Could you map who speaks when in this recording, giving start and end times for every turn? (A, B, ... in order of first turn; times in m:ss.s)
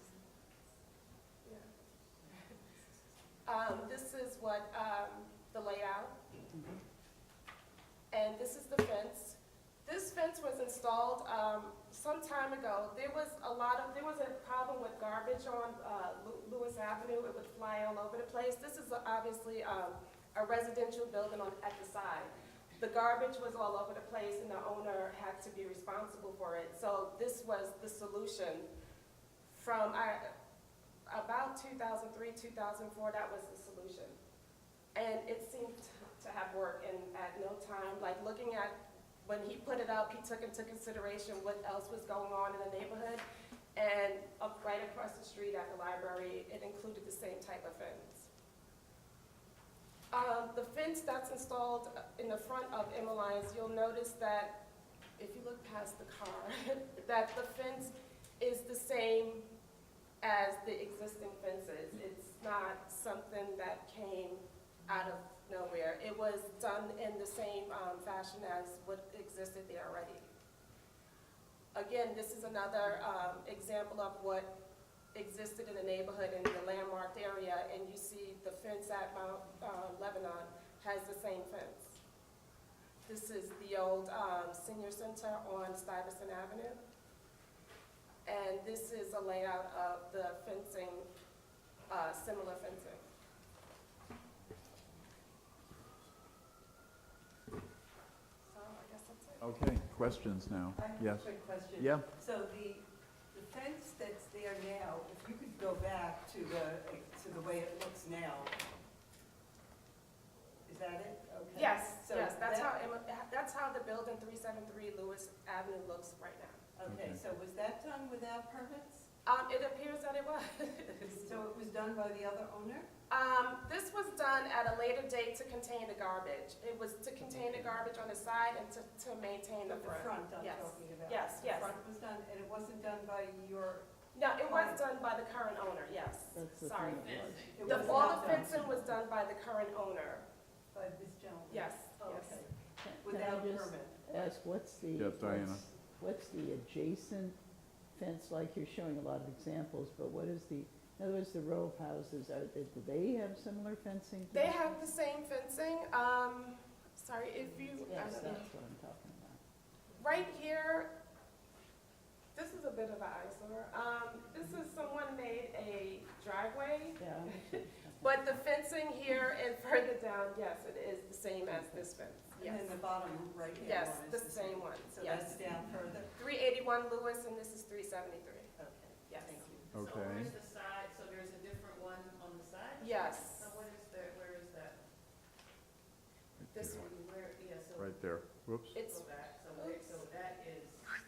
0:03.4-0:06.1 A
0:08.1-0:28.7 A
0:29.5-0:30.3 A
0:31.1-0:34.2 A
0:34.9-0:43.2 A
0:43.8-0:48.3 A
0:50.1-0:54.6 A
0:55.2-0:59.5 A
1:00.2-1:10.3 A
1:11.7-1:14.5 A
1:15.1-1:22.0 A
1:23.0-1:26.8 A
1:28.2-1:31.1 A
1:31.9-1:33.0 A
1:38.5-1:39.5 A
1:39.4-1:42.1 B
1:40.7-1:48.5 C
1:50.6-1:52.8 C
1:51.5-1:56.6 A
1:56.8-1:59.1 C
1:56.8-1:57.2 B
1:59.2-2:01.4 A
2:01.2-2:02.9 C
2:03.1-2:11.8 A
2:09.7-2:14.8 C
2:14.1-2:20.2 A
2:16.3-2:18.9 D
2:17.0-2:18.0 E
2:17.5-2:18.6 C
2:20.7-2:24.0 C
2:21.5-2:22.4 A
2:22.8-2:27.4 D
2:25.0-2:25.6 B
2:27.9-2:34.8 D
2:34.3-2:38.5 A
2:37.7-2:39.4 D
2:40.0-2:40.9 A
2:42.3-2:52.7 A
2:47.0-2:48.3 D
2:51.5-2:51.9 D
2:52.4-2:56.1 C
2:53.6-2:55.4 A
2:56.1-2:58.5 A
2:58.6-2:59.7 C
2:59.1-2:59.4 A
2:59.4-3:04.8 E
2:59.7-3:00.3 B
3:02.8-3:03.5 A
3:06.4-3:06.9 B
3:06.5-3:11.0 E
3:07.8-3:08.8 B
3:08.7-3:10.0 A